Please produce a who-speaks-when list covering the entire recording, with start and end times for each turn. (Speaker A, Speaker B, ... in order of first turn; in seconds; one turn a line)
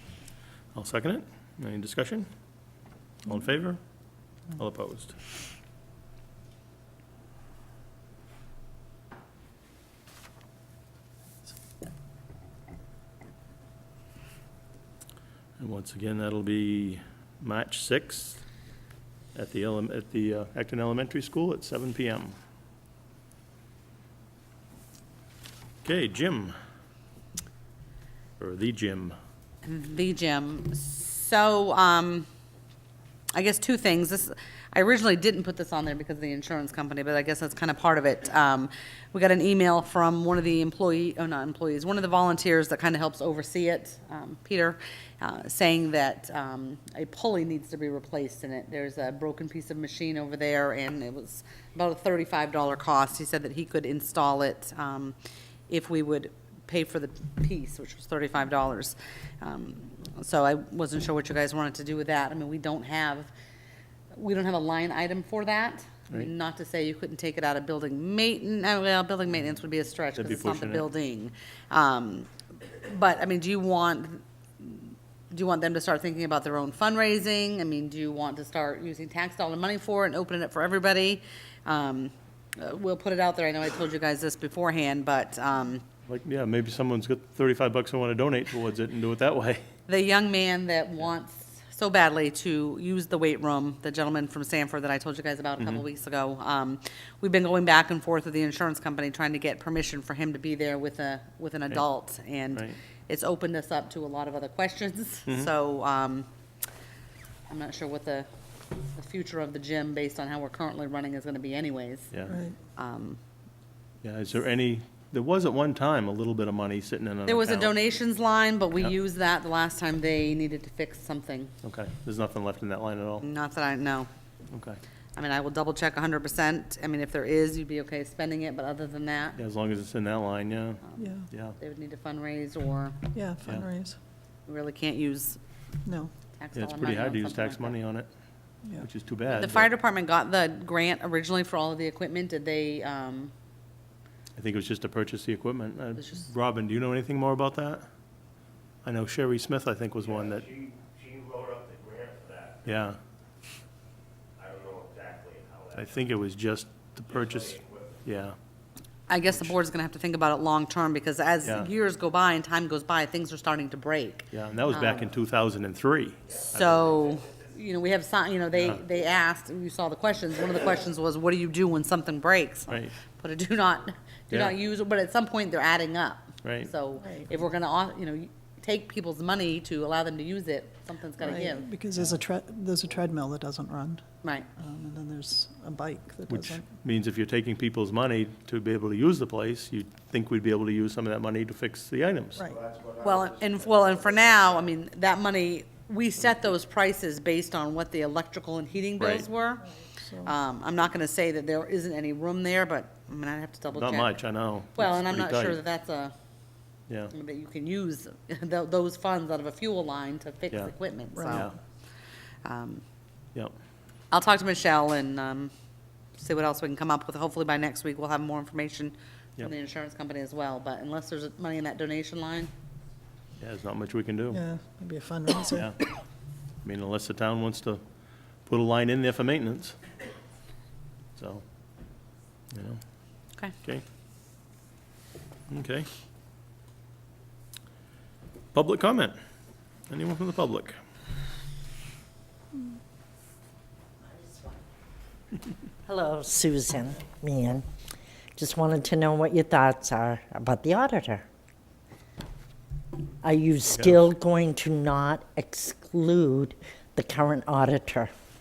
Speaker A: 0.7-2.3
Speaker A: 3.2-3.8
Speaker A: 4.5-5.2
Speaker A: 15.6-18.4
Speaker A: 19.3-22.3
Speaker A: 25.8-26.5
Speaker A: 28.4-29.1
Speaker B: 29.6-32.3
Speaker B: 33.3-55.1
Speaker B: 55.7-63.3
Speaker B: 64.1-72.3
Speaker A: 70.2-70.8
Speaker B: 72.8-85.8
Speaker A: 86.1-89.6
Speaker B: 89.9-106.3
Speaker A: 95.6-95.8
Speaker B: 107.5-108.3
Speaker B: 108.9-112.1
Speaker A: 112.1-112.4
Speaker C: 112.3-112.5
Speaker B: 112.8-113.2
Speaker A: 114.0-117.8
Speaker B: 117.2-121.5
Speaker A: 121.6-123.3
Speaker B: 123.2-124.1
Speaker A: 124.5-124.8
Speaker B: 125.2-129.4
Speaker A: 129.4-131.6
Speaker B: 130.9-133.0
Speaker C: 131.0-131.3
Speaker C: 133.1-133.9
Speaker B: 134.5-135.4
Speaker C: 135.8-136.1
Speaker B: 136.4-137.8
Speaker A: 136.5-138.1
Speaker A: 138.8-139.7
Speaker B: 139.3-143.3
Speaker A: 144.3-147.8
Speaker B: 145.9-146.2
Speaker A: 148.8-150.5
Speaker D: 150.6-152.5
Speaker A: 152.6-153.0
Speaker D: 154.4-155.7
Speaker A: 155.7-158.3
Speaker B: 159.1-165.1
Speaker A: 159.3-159.5
Speaker A: 161.4-161.7
Speaker A: 164.3-166.9
Speaker B: 166.5-181.6
Speaker A: 168.5-168.8
Speaker A: 176.4-176.7
Speaker C: 177.0-177.3
Speaker C: 181.2-184.0
Speaker C: 184.6-186.7
Speaker A: 186.3-192.4
Speaker D: 192.6-193.1
Speaker B: 193.0-199.7
Speaker A: 199.0-199.3
Speaker C: 200.0-200.3
Speaker B: 200.2-204.2
Speaker A: 203.7-205.6
Speaker B: 204.7-206.1
Speaker B: 207.1-211.5
Speaker C: 211.1-211.5
Speaker A: 211.3-211.5
Speaker B: 212.4-212.8
Speaker B: 214.1-215.5
Speaker B: 216.2-222.5
Speaker A: 223.4-224.4
Speaker C: 224.3-225.7
Speaker A: 226.6-227.8
Speaker A: 228.4-229.8
Speaker A: 231.2-231.4
Speaker A: 232.5-232.8
Speaker A: 235.5-235.9
Speaker A: 238.5-239.1
Speaker A: 239.9-240.7
Speaker E: 245.9-247.6
Speaker E: 248.3-251.2
Speaker E: 253.2-258.1